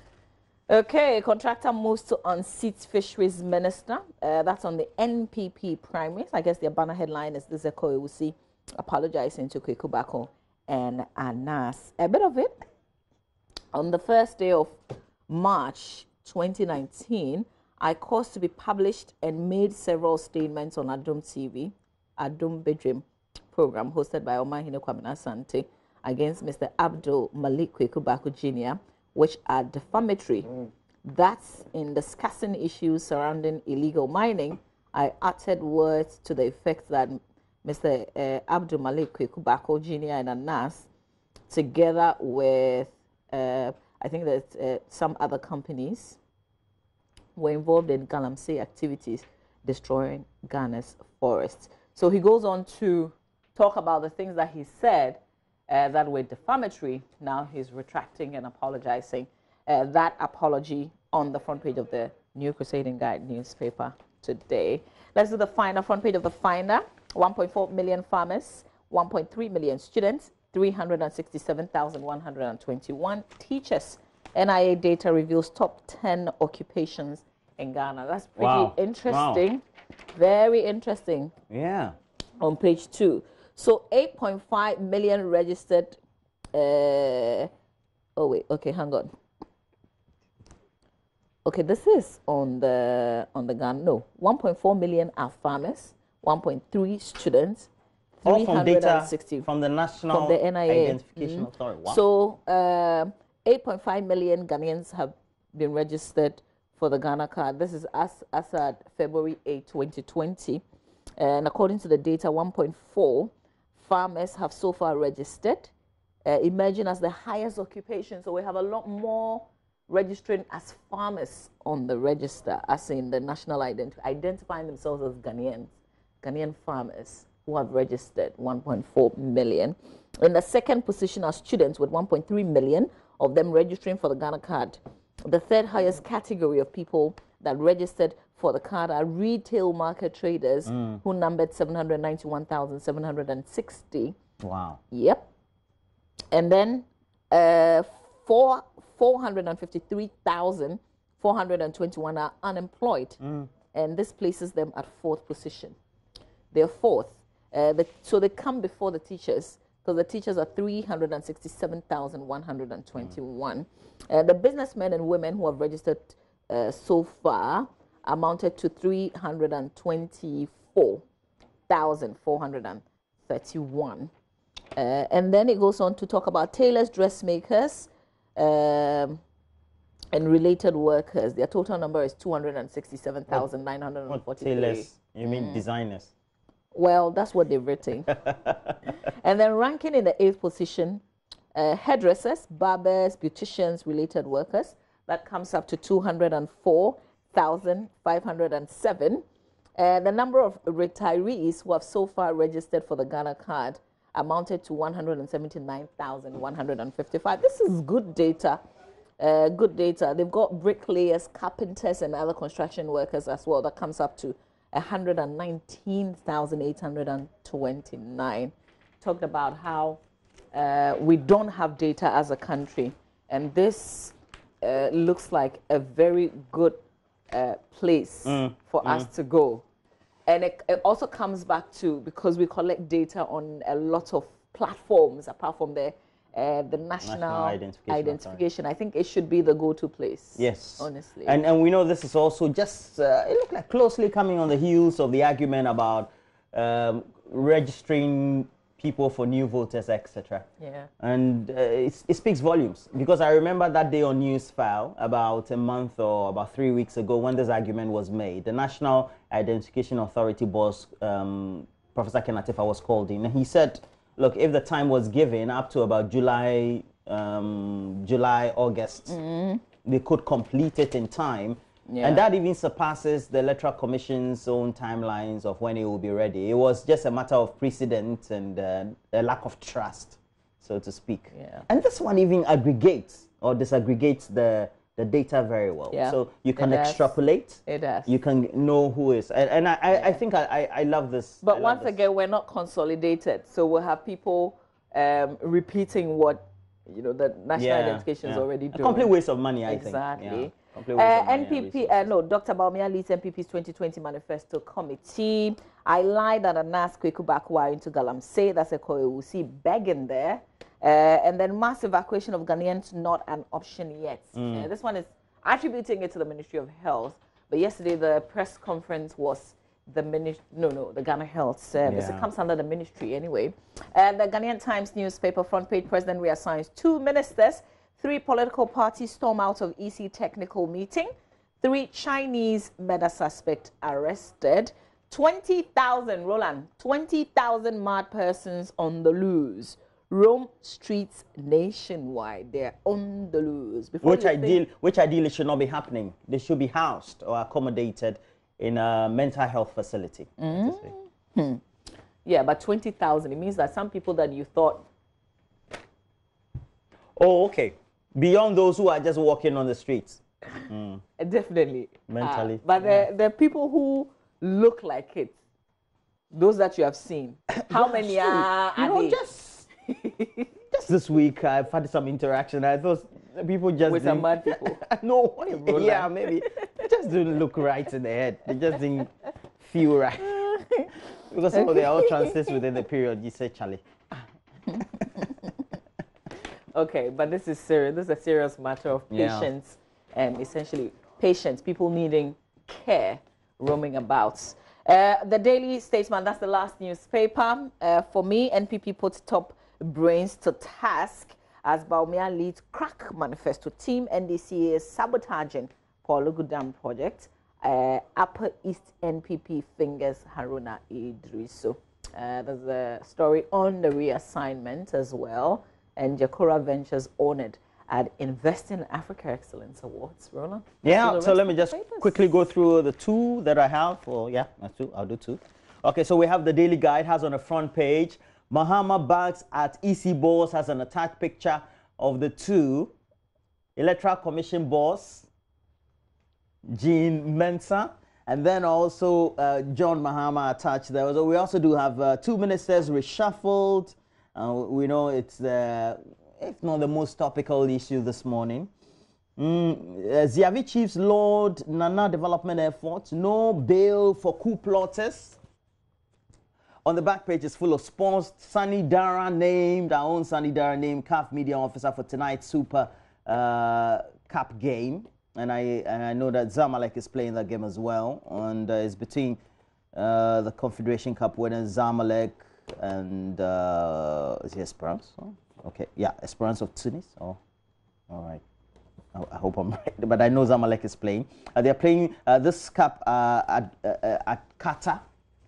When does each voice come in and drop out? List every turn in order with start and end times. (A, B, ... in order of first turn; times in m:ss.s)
0:00.7-0:12.6 A
0:13.7-0:14.8 A
0:15.3-0:30.5 A
0:31.0-0:40.9 A
0:41.5-0:46.2 A
0:47.4-1:19.6 A
1:18.4-1:19.4 B
1:20.1-1:21.3 A
1:21.5-1:22.0 B
1:22.4-1:26.0 A
1:26.5-1:27.5 A
1:28.2-1:29.1 A
1:31.4-1:37.7 A
1:38.2-1:39.5 A
1:38.2-1:42.0 B
1:40.1-1:50.6 A
1:51.2-1:55.7 A
1:56.2-2:24.2 A
2:20.7-2:21.0 B
2:24.4-2:24.8 B
2:24.9-2:25.3 A
2:26.3-2:33.2 A
2:33.2-2:33.5 B
2:33.7-2:35.8 A
2:36.5-2:51.0 A
2:51.7-2:54.1 A
2:54.8-2:59.2 A
3:00.1-3:05.6 A
3:04.1-3:06.1 B
3:06.7-3:08.2 A
3:08.2-3:08.7 B
3:09.0-3:11.0 A
3:11.6-3:19.2 A
3:19.8-3:28.6 A
3:29.2-3:40.0 A
3:40.5-3:46.8 A
3:47.3-3:49.6 A
3:48.2-3:49.1 B
3:50.3-4:01.4 A
3:57.0-3:58.4 B
4:00.4-4:10.5 B
4:10.6-4:10.9 A
4:11.0-4:29.2 B
4:29.1-4:29.6 A
4:29.8-4:52.0 B
4:31.9-4:32.2 A
4:41.3-4:41.6 A
4:45.9-4:48.2 A
4:49.9-4:50.2 A
4:51.4-4:59.1 A
4:57.6-5:02.1 B
4:59.7-5:44.6 A
5:14.4-5:14.7 B
5:21.8-5:22.3 B
5:44.0-5:50.9 B
5:50.4-5:51.6 A
5:52.2-5:54.8 A
5:57.2-6:01.0 B
6:01.2-6:05.4 A
6:02.1-6:03.1 B
6:06.3-6:09.2 A
6:07.5-6:09.7 B
6:09.9-6:10.5 A
6:10.7-6:20.5 B
6:13.8-6:14.8 A
6:15.5-6:16.3 A
6:20.3-6:20.9 A
6:21.3-6:23.8 B
6:21.5-6:22.5 A
6:24.8-6:25.0 B
6:26.7-7:02.3 A
6:29.1-6:29.5 B
7:00.8-7:13.0 B
7:13.8-7:15.3 B
7:16.7-7:28.7 B
7:29.4-7:35.4 B
7:36.8-7:49.4 B
7:50.0-7:57.4 B
7:58.1-7:58.4 B
7:59.1-8:05.0 B